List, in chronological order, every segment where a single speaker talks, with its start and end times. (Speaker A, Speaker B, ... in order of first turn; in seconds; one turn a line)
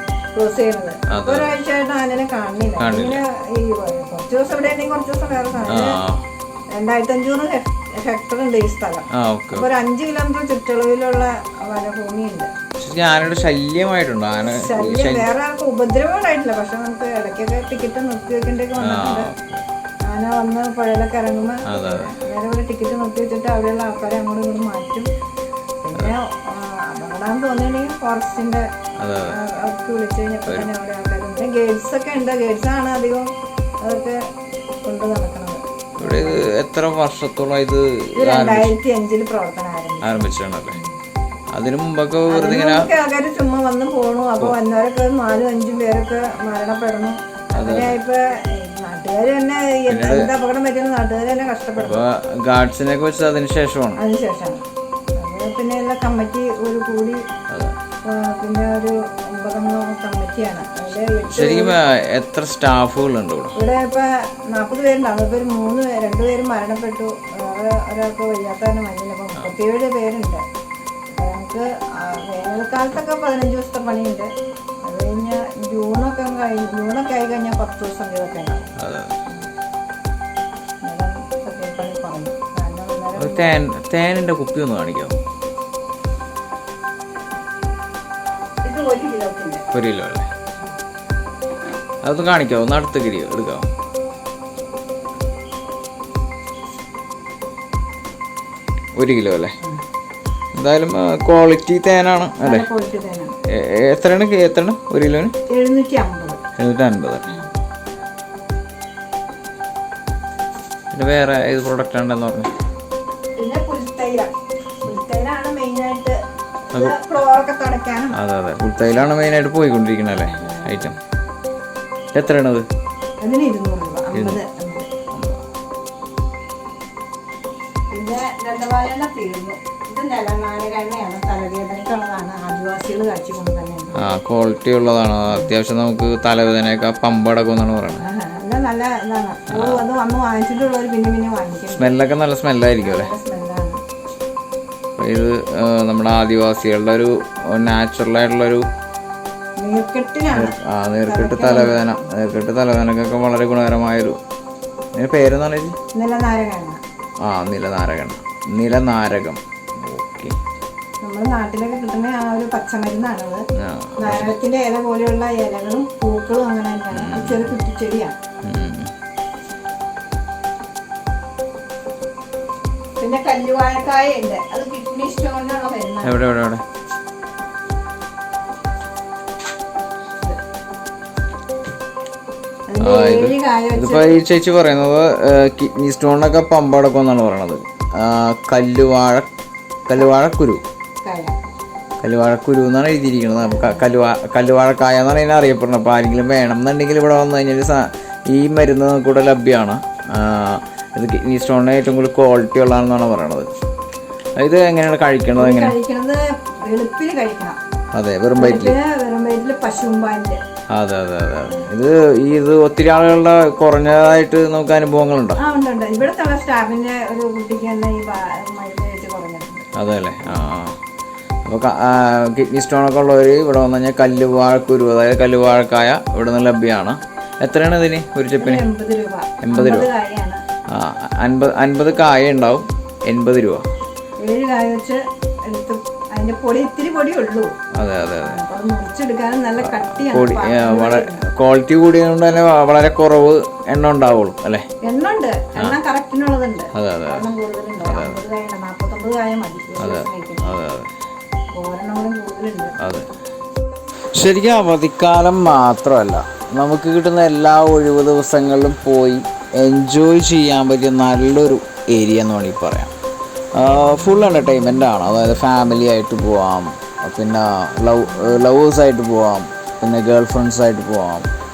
Speaker A: 0.3-6.0
Speaker B: 1.1-1.5
Speaker B: 2.8-3.2
Speaker B: 5.7-6.2
Speaker A: 6.7-12.5
Speaker B: 9.1-9.7
Speaker B: 12.8-15.2
Speaker A: 14.5-19.3
Speaker B: 18.8-19.6
Speaker A: 20.1-25.1
Speaker B: 21.7-22.2
Speaker A: 25.8-28.7
Speaker B: 29.0-29.4
Speaker A: 29.3-33.3
Speaker A: 33.8-34.2
Speaker A: 34.8-36.5
Speaker B: 36.0-38.7
Speaker A: 38.2-40.2
Speaker B: 40.0-40.8
Speaker B: 41.5-42.9
Speaker A: 42.3-52.0
Speaker B: 47.5-48.0
Speaker B: 49.9-50.3
Speaker B: 51.8-54.0
Speaker A: 54.0-54.6
Speaker A: 55.2-57.2
Speaker B: 57.5-57.7
Speaker A: 58.1-61.8
Speaker B: 61.3-63.5
Speaker A: 63.6-70.4
Speaker A: 71.2-74.3
Speaker A: 74.8-78.7
Speaker B: 78.8-79.1
Speaker A: 80.8-83.5
Speaker B: 83.2-85.2
Speaker A: 88.6-89.6
Speaker B: 89.7-90.3
Speaker B: 92.0-93.7
Speaker B: 99.0-99.5
Speaker B: 100.5-102.7
Speaker A: 102.4-103.4
Speaker B: 103.5-105.3
Speaker A: 105.5-106.4
Speaker B: 106.6-107.3
Speaker B: 110.9-112.5
Speaker A: 113.4-114.3
Speaker A: 114.8-116.2
Speaker A: 116.7-118.2
Speaker B: 118.1-121.0
Speaker A: 120.3-120.9
Speaker B: 122.1-122.7
Speaker A: 123.2-124.9
Speaker B: 124.1-124.4
Speaker A: 127.9-133.9
Speaker B: 134.0-138.0
Speaker A: 138.0-141.9
Speaker B: 139.5-139.8
Speaker B: 141.7-143.1
Speaker A: 142.8-143.8
Speaker B: 145.0-148.7
Speaker A: 149.6-152.0
Speaker B: 150.3-154.2
Speaker B: 154.9-155.8
Speaker A: 155.9-156.8
Speaker B: 157.2-160.3
Speaker A: 161.0-163.4
Speaker B: 163.6-164.3
Speaker A: 164.0-168.1
Speaker B: 166.9-167.5
Speaker B: 168.4-168.9
Speaker A: 173.0-176.2
Speaker B: 176.0-176.6
Speaker A: 182.7-184.2
Speaker B: 182.8-189.3
Speaker B: 189.9-190.6
Speaker A: 191.0-191.3
Speaker B: 192.0-203.5
Speaker A: 193.4-193.8
Speaker B: 204.4-205.7
Speaker A: 205.3-207.6
Speaker B: 207.9-208.8
Speaker A: 208.4-210.4
Speaker B: 210.7-215.4
Speaker A: 215.4-219.7
Speaker B: 219.8-220.8
Speaker B: 221.4-228.6
Speaker A: 228.4-230.4
Speaker B: 229.4-229.9
Speaker B: 230.7-233.7
Speaker A: 234.2-237.5
Speaker B: 237.8-238.4
Speaker A: 238.2-241.3
Speaker B: 239.6-244.7
Speaker A: 244.8-250.5
Speaker B: 246.7-247.2
Speaker B: 247.8-248.2
Speaker B: 249.8-250.9
Speaker A: 251.5-252.7
Speaker B: 252.8-253.1
Speaker B: 254.2-262.9
Speaker B: 263.5-271.3